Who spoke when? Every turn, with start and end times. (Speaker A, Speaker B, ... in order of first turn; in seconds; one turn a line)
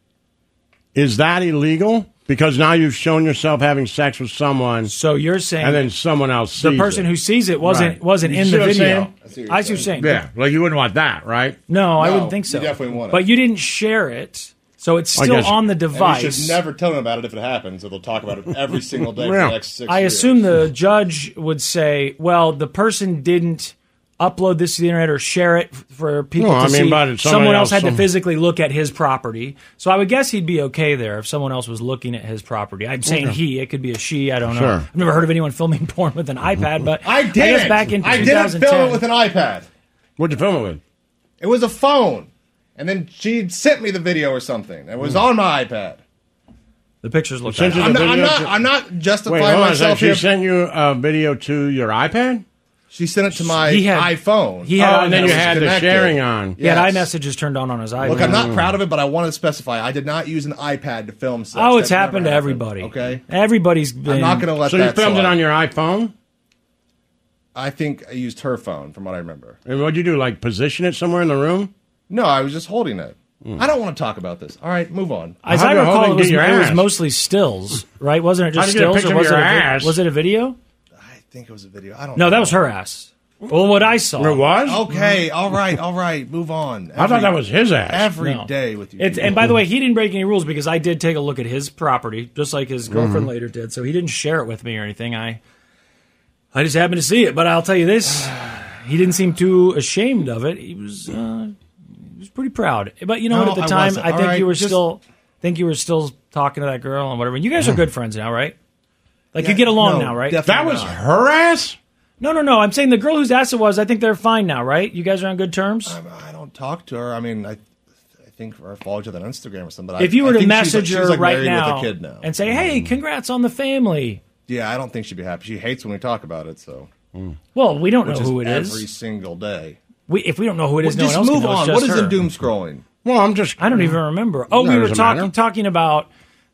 Speaker A: 0.9-4.9
Speaker B: 4.9-5.8
Speaker A: 5.6-7.1
Speaker B: 6.6-10.2
Speaker A: 7.6-9.1
Speaker C: 9.2-9.9
Speaker A: 10.0-11.6
Speaker B: 11.7-16.6
Speaker C: 12.0-13.2
Speaker A: 15.2-15.6
Speaker C: 15.9-20.4
Speaker A: 19.1-19.6
Speaker B: 19.9-39.0
Speaker A: 26.4-28.0
Speaker A: 33.1-33.4
Speaker A: 34.5-34.9
Speaker C: 37.0-39.7
Speaker A: 40.2-40.8
Speaker C: 41.4-46.0
Speaker B: 47.0-48.0
Speaker A: 47.5-48.5
Speaker C: 47.8-50.2
Speaker A: 49.3-52.4
Speaker C: 52.9-57.1
Speaker B: 53.4-55.6
Speaker A: 54.8-56.6
Speaker B: 56.6-58.5
Speaker C: 58.0-63.2
Speaker A: 58.0-58.8
Speaker B: 61.5-64.5
Speaker C: 64.1-65.4
Speaker A: 64.7-66.1
Speaker C: 67.5-69.6
Speaker A: 69.7-71.7
Speaker C: 72.1-75.4
Speaker B: 75.4-80.6
Speaker A: 75.5-76.9
Speaker A: 78.5-80.0
Speaker C: 81.0-82.6
Speaker B: 82.2-85.1
Speaker A: 84.2-84.8
Speaker C: 84.7-89.5
Speaker A: 87.0-88.1
Speaker B: 88.2-95.4
Speaker A: 92.9-93.3
Speaker B: 96.5-101.6
Speaker B: 102.2-108.5
Speaker C: 103.3-104.8
Speaker B: 109.3-110.8
Speaker C: 109.4-111.0
Speaker A: 110.5-111.8
Speaker B: 112.2-116.0
Speaker C: 115.9-117.6
Speaker C: 118.3-122.2
Speaker B: 120.0-124.2
Speaker A: 122.5-122.8
Speaker C: 124.5-126.9
Speaker B: 127.5-128.8
Speaker C: 128.0-129.8
Speaker B: 130.1-132.2
Speaker C: 130.8-132.8
Speaker A: 133.0-134.0
Speaker B: 133.6-136.1
Speaker A: 134.5-135.3